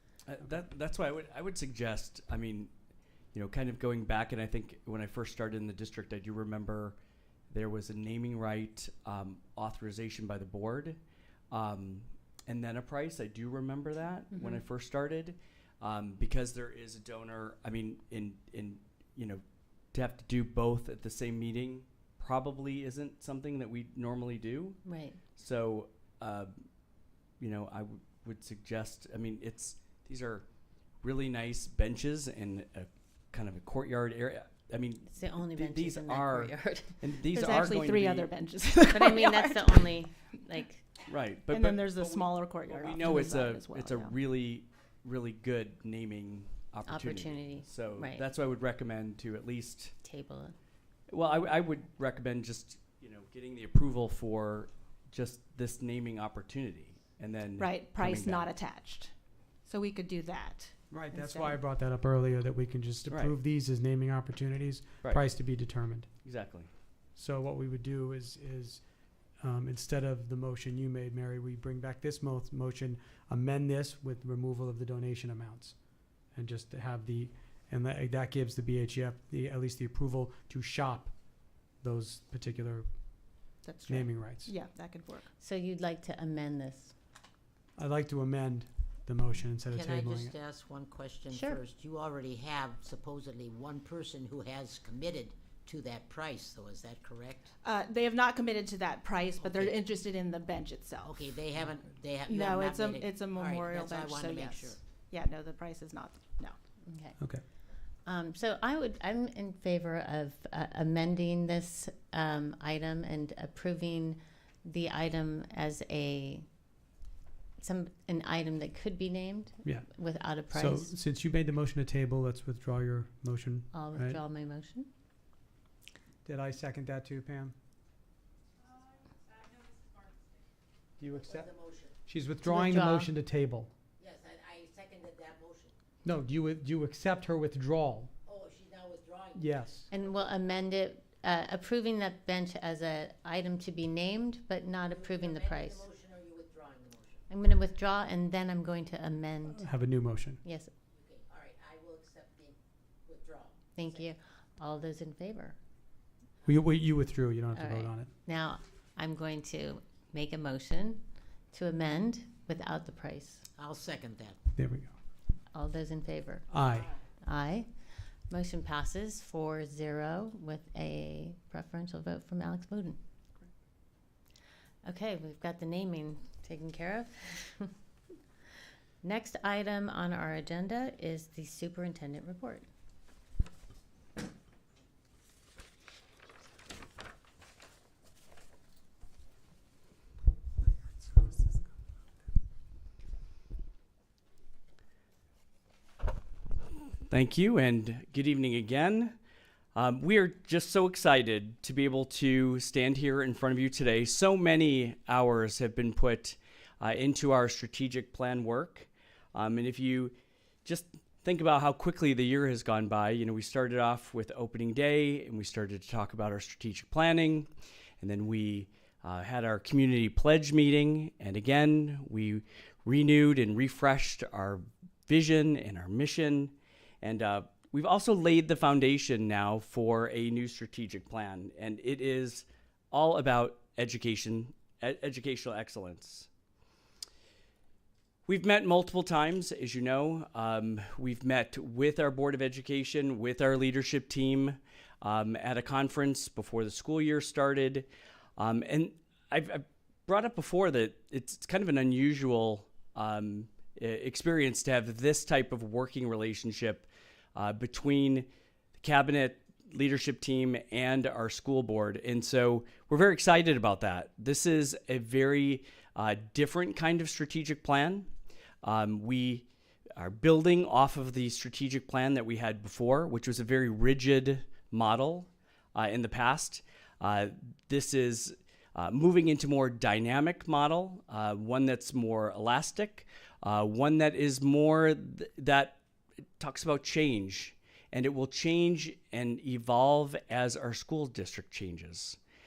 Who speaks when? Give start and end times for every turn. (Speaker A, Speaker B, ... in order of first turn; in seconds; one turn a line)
Speaker A: 0.2-2.7
Speaker A: 3.3-7.0
Speaker A: 7.5-11.0
Speaker A: 11.5-19.4
Speaker B: 14.3-14.6
Speaker A: 19.9-24.8
Speaker B: 24.8-25.2
Speaker A: 25.4-26.6
Speaker A: 27.4-30.4
Speaker A: 31.0-38.3
Speaker B: 35.1-37.0
Speaker C: 37.3-39.8
Speaker B: 38.9-40.9
Speaker A: 41.1-49.9
Speaker C: 41.5-44.1
Speaker B: 46.9-48.2
Speaker B: 50.0-50.5
Speaker A: 51.1-58.5
Speaker C: 57.6-59.1
Speaker C: 59.6-61.5
Speaker D: 60.9-66.1
Speaker A: 63.1-63.4
Speaker A: 66.2-66.7
Speaker D: 67.2-68.8
Speaker D: 69.4-75.8
Speaker D: 76.3-81.1
Speaker D: 81.8-82.9
Speaker C: 83.6-85.2
Speaker D: 83.9-84.5
Speaker B: 85.4-86.9
Speaker D: 87.8-90.3
Speaker E: 89.7-97.5
Speaker B: 91.3-91.6
Speaker C: 97.6-101.3
Speaker E: 99.4-99.7
Speaker E: 101.0-104.8
Speaker C: 102.3-106.5
Speaker B: 106.8-107.2
Speaker B: 108.0-116.4
Speaker B: 117.6-120.9
Speaker D: 120.5-124.2
Speaker B: 123.7-124.9
Speaker D: 126.2-127.5
Speaker D: 131.0-131.5
Speaker E: 131.1-131.9
Speaker D: 132.1-133.7
Speaker B: 132.4-133.1
Speaker E: 134.0-135.7
Speaker D: 136.0-138.1
Speaker E: 138.2-139.7
Speaker D: 139.4-139.9
Speaker B: 139.9-145.9
Speaker E: 144.9-147.2
Speaker B: 147.3-149.7
Speaker D: 149.5-150.4
Speaker B: 150.4-150.7
Speaker E: 150.9-154.0
Speaker B: 153.8-155.6
Speaker D: 156.4-158.1
Speaker B: 157.5-163.4
Speaker E: 163.6-164.4
Speaker D: 164.6-164.9
Speaker B: 165.5-166.4
Speaker D: 166.5-166.9
Speaker B: 167.2-167.7
Speaker B: 168.3-173.0
Speaker B: 174.8-177.7
Speaker B: 179.0-182.7
Speaker A: 197.1-199.2
Speaker A: 199.7-217.5
Speaker A: 218.0-236.3
Speaker A: 238.3-268.1
Speaker A: 268.6-285.8
Speaker A: 286.4-292.2